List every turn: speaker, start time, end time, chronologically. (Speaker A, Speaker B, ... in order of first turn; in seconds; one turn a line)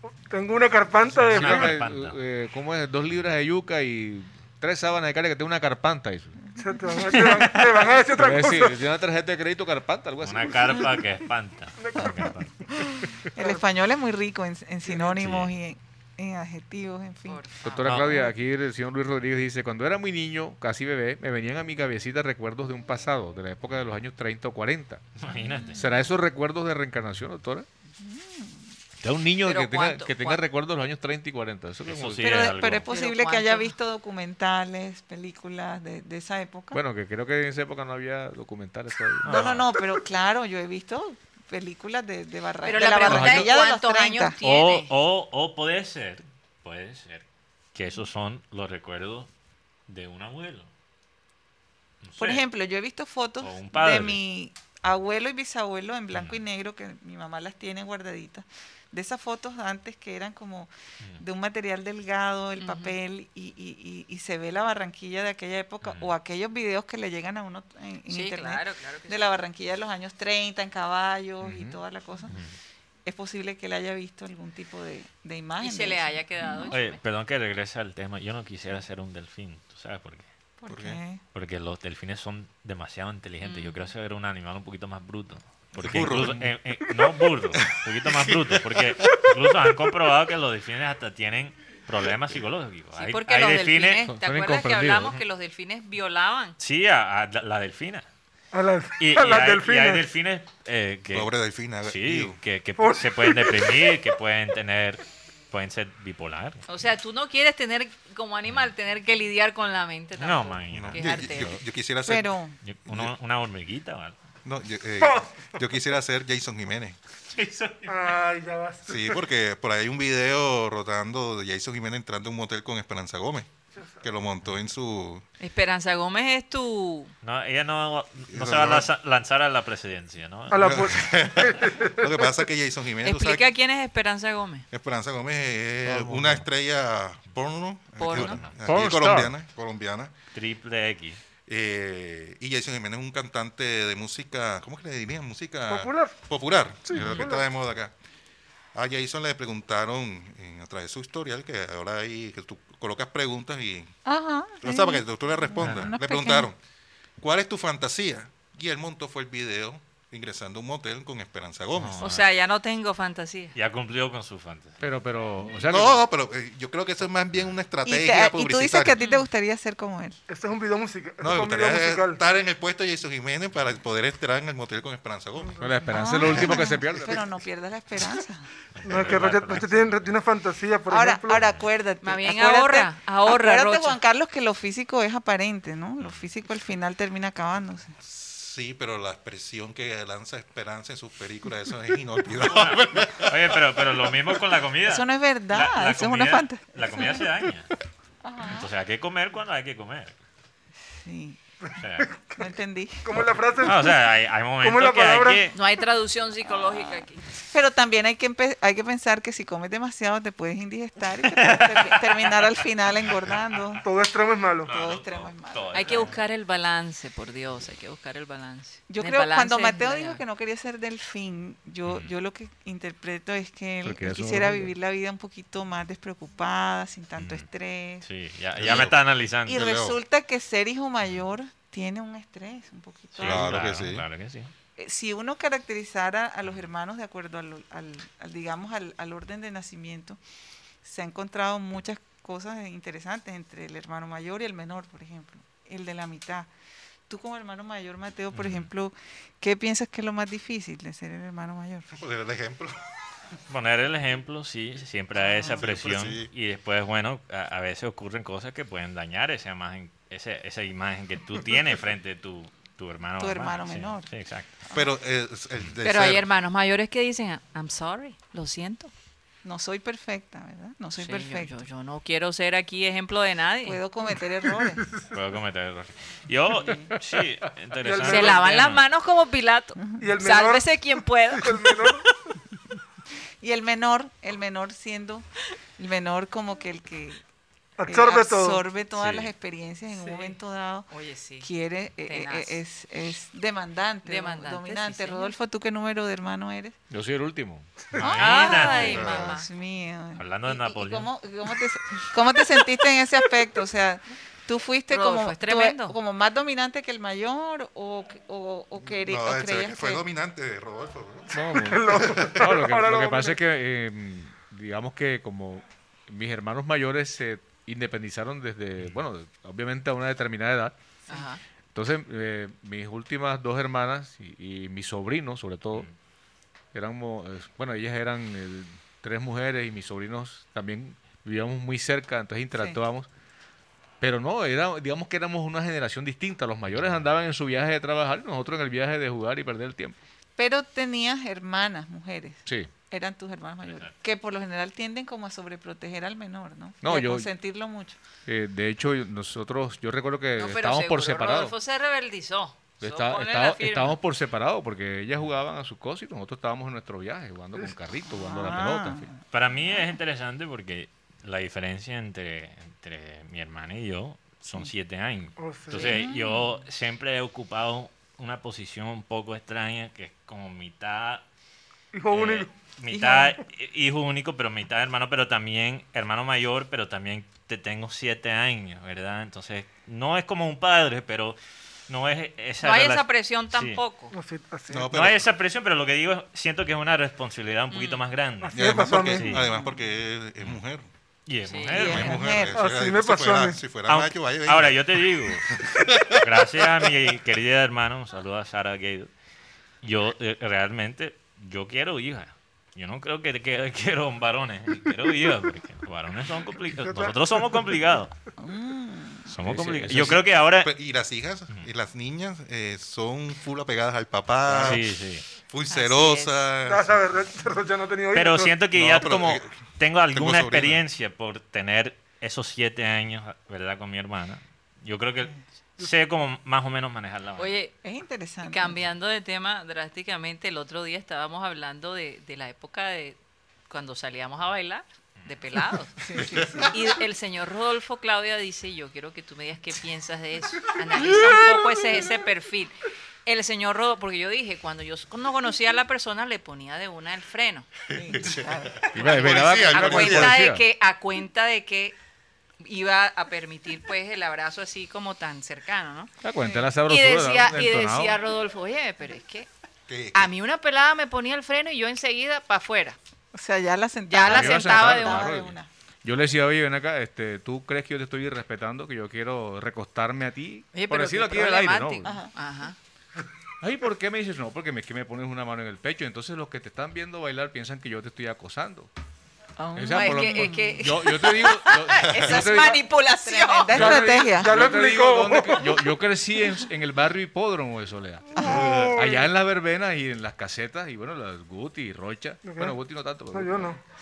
Speaker A: 0.3-1.8
Speaker B: 1.3-6.4
Speaker C: 1.3-2.2
Speaker A: 6.6-8.8
Speaker B: 8.1-11.0
Speaker C: 10.2-12.5
Speaker A: 11.8-12.3
Speaker D: 12.7-18.3
Speaker C: 15.0-15.5
Speaker E: 17.3-17.9
Speaker B: 17.6-25.0
Speaker C: 17.9-18.2
Speaker C: 25.2-25.9
Speaker D: 25.3-26.1
Speaker B: 25.8-27.7
Speaker D: 28.0-28.7
Speaker B: 29.0-32.5
Speaker E: 29.4-30.4
Speaker C: 31.9-32.9
Speaker D: 32.2-36.8
Speaker E: 32.9-33.8
Speaker B: 36.7-39.5
Speaker C: 39.2-39.7
Speaker D: 39.3-44.4
Speaker E: 42.6-44.9
Speaker B: 43.0-43.5
Speaker C: 44.4-49.3
Speaker C: 49.9-50.7
Speaker C: 52.0-52.4
Speaker D: 52.2-72.4
Speaker C: 53.4-54.2
Speaker C: 56.1-56.4
Speaker E: 62.6-63.0
Speaker C: 65.8-66.1
Speaker E: 68.1-69.3
Speaker B: 71.5-71.7
Speaker C: 72.3-72.5
Speaker D: 73.0-76.8
Speaker E: 75.6-77.0
Speaker C: 76.7-80.3
Speaker D: 80.6-81.2
Speaker F: 80.7-81.0
Speaker C: 81.3-94.1
Speaker E: 83.4-83.9
Speaker F: 85.8-86.5
Speaker F: 87.6-89.3
Speaker E: 93.0-96.6
Speaker B: 94.1-95.1
Speaker C: 96.6-98.0
Speaker A: 98.5-100.0
Speaker C: 99.0-101.3
Speaker F: 101.1-102.4
Speaker C: 101.8-106.6
Speaker A: 102.8-104.0
Speaker E: 106.7-111.5
Speaker C: 110.2-111.6
Speaker F: 110.7-112.3
Speaker D: 112.0-112.6
Speaker C: 112.6-114.2
Speaker F: 112.9-113.1
Speaker F: 114.5-117.0
Speaker A: 115.0-115.6
Speaker C: 117.3-118.2
Speaker A: 117.9-119.2
Speaker F: 118.9-123.5
Speaker F: 124.0-125.2
Speaker E: 125.4-127.1
Speaker C: 127.2-131.0
Speaker F: 128.3-128.9
Speaker A: 130.5-132.4
Speaker F: 130.6-133.4
Speaker E: 133.0-134.7
Speaker F: 134.7-140.1
Speaker B: 135.8-136.5
Speaker E: 138.0-138.4
Speaker C: 138.1-138.6
Speaker B: 138.6-139.3
Speaker C: 140.3-141.2
Speaker F: 141.5-147.9
Speaker A: 145.7-146.2
Speaker A: 146.8-147.5
Speaker C: 146.9-147.2
Speaker F: 148.7-153.9
Speaker D: 154.1-156.5
Speaker F: 154.6-156.6
Speaker C: 155.6-155.9
Speaker F: 157.2-162.0
Speaker C: 161.8-162.2
Speaker E: 162.0-163.6
Speaker C: 163.6-164.8
Speaker B: 164.8-166.0
Speaker F: 165.7-169.0
Speaker D: 167.8-170.2
Speaker E: 169.0-169.3
Speaker A: 170.3-172.2
Speaker F: 171.2-175.6
Speaker A: 175.4-175.8
Speaker B: 175.6-177.3
Speaker D: 175.8-178.5
Speaker C: 178.8-180.1
Speaker A: 178.8-181.5
Speaker D: 180.9-187.9
Speaker C: 181.4-181.6
Speaker E: 182.0-184.0
Speaker C: 186.0-186.3
Speaker F: 188.0-193.6
Speaker C: 192.4-197.7
Speaker D: 194.8-197.3
Speaker D: 198.2-198.7
Speaker C: 198.4-200.2
Speaker D: 200.9-201.4
Speaker C: 201.8-202.1
Speaker A: 202.0-202.5
Speaker D: 202.4-203.1
Speaker A: 203.1-204.0
Speaker C: 203.6-205.6
Speaker A: 204.6-205.5
Speaker E: 205.5-207.2
Speaker D: 207.4-213.8
Speaker C: 211.2-212.6
Speaker C: 213.3-213.8
Speaker A: 213.8-214.7
Speaker C: 214.7-216.2
Speaker D: 214.7-216.1
Speaker E: 215.7-220.2
Speaker D: 218.9-228.1
Speaker B: 223.8-224.7
Speaker C: 227.2-227.5
Speaker C: 228.0-229.6
Speaker F: 228.6-229.0
Speaker D: 229.5-233.7
Speaker F: 229.6-230.0
Speaker C: 233.2-234.5
Speaker F: 233.2-234.1
Speaker D: 234.8-240.2
Speaker D: 240.8-246.5
Speaker D: 247.1-251.9
Speaker C: 248.3-248.7
Speaker F: 251.9-252.8
Speaker C: 253.5-264.5
Speaker D: 255.2-255.6
Speaker F: 255.6-256.3
Speaker D: 263.2-264.1
Speaker D: 264.7-264.9
Speaker F: 264.7-266.2
Speaker E: 265.8-268.9
Speaker D: 269.4-271.6
Speaker E: 271.0-273.8
Speaker D: 273.6-274.9
Speaker C: 275.1-278.8
Speaker D: 276.6-276.9
Speaker A: 277.8-278.4
Speaker E: 278.0-281.6
Speaker A: 280.0-280.7
Speaker A: 281.4-282.1
Speaker D: 283.4-285.3
Speaker D: 285.8-287.2
Speaker A: 287.8-288.7
Speaker D: 287.9-290.9
Speaker C: 289.0-289.3
Speaker E: 290.9-291.5
Speaker D: 291.4-296.8
Speaker E: 292.1-292.6
Speaker E: 294.1-295.3
Speaker B: 296.9-297.7
Speaker C: 297.9-299.2
Speaker D: 298.0-310.1
Speaker E: 298.0-299.5
Speaker F: 298.8-299.4
Speaker C: 300.2-301.1
Speaker E: 304.9-306.0
Speaker F: 308.9-311.5
Speaker B: 311.3-320.8
Speaker A: 311.7-313.4
Speaker E: 321.1-321.4
Speaker B: 321.8-325.9
Speaker B: 326.7-333.1
Speaker B: 334.0-340.0
Speaker D: 340.4-348.0
Speaker C: 343.6-343.9
Speaker B: 346.8-347.3
Speaker B: 348.3-351.5
Speaker E: 350.4-354.0
Speaker B: 352.8-359.1
Speaker D: 358.1-359.2
Speaker C: 359.3-371.2
Speaker A: 365.4-366.0
Speaker D: 365.7-366.5
Speaker A: 371.9-372.5
Speaker C: 372.1-381.4
Speaker D: 372.9-373.3
Speaker C: 381.9-383.8
Speaker E: 382.6-384.1
Speaker A: 384.1-384.9
Speaker F: 384.7-385.3
Speaker C: 384.9-389.4
Speaker E: 387.7-388.0
Speaker A: 388.5-389.3
Speaker F: 388.5-390.9
Speaker D: 389.3-389.8
Speaker C: 391.3-392.4
Speaker E: 391.5-391.8
Speaker D: 391.7-392.6
Speaker F: 391.7-394.8
Speaker A: 392.5-393.6
Speaker C: 393.9-395.5
Speaker F: 395.5-396.3
Speaker C: 396.1-399.1
Speaker C: 399.8-408.1
Speaker A: 406.8-407.2
Speaker D: 408.4-409.3
Speaker C: 409.3-410.7
Speaker B: 409.4-410.2
Speaker F: 410.6-414.9
Speaker C: 414.5-415.2
Speaker F: 415.5-417.0
Speaker E: 415.7-416.4
Speaker A: 416.6-418.6
Speaker C: 418.1-427.5
Speaker F: 418.7-419.5
Speaker F: 420.1-420.8
Speaker E: 427.4-427.7
Speaker D: 427.8-428.8
Speaker E: 428.4-433.2
Speaker E: 433.7-435.9
Speaker D: 436.0-436.7
Speaker F: 436.2-436.7
Speaker E: 436.7-447.7
Speaker F: 447.9-450.4
Speaker D: 447.9-448.9
Speaker B: 448.9-450.6
Speaker E: 449.0-451.9
Speaker E: 452.6-456.1
Speaker B: 456.2-458.2
Speaker D: 456.4-456.7
Speaker E: 456.9-459.5
Speaker F: 459.9-460.3
Speaker E: 460.1-463.0
Speaker D: 463.3-465.7
Speaker E: 464.1-465.3
Speaker B: 464.2-472.2
Speaker E: 470.7-472.8
Speaker D: 472.0-472.3
Speaker B: 473.6-478.9
Speaker D: 479.6-481.2
Speaker B: 479.7-482.9
Speaker E: 479.9-484.0
Speaker D: 482.5-484.6
Speaker B: 483.7-493.8
Speaker A: 483.8-485.8
Speaker D: 488.4-489.2
Speaker A: 488.5-489.1
Speaker A: 492.4-492.8
Speaker A: 493.3-493.8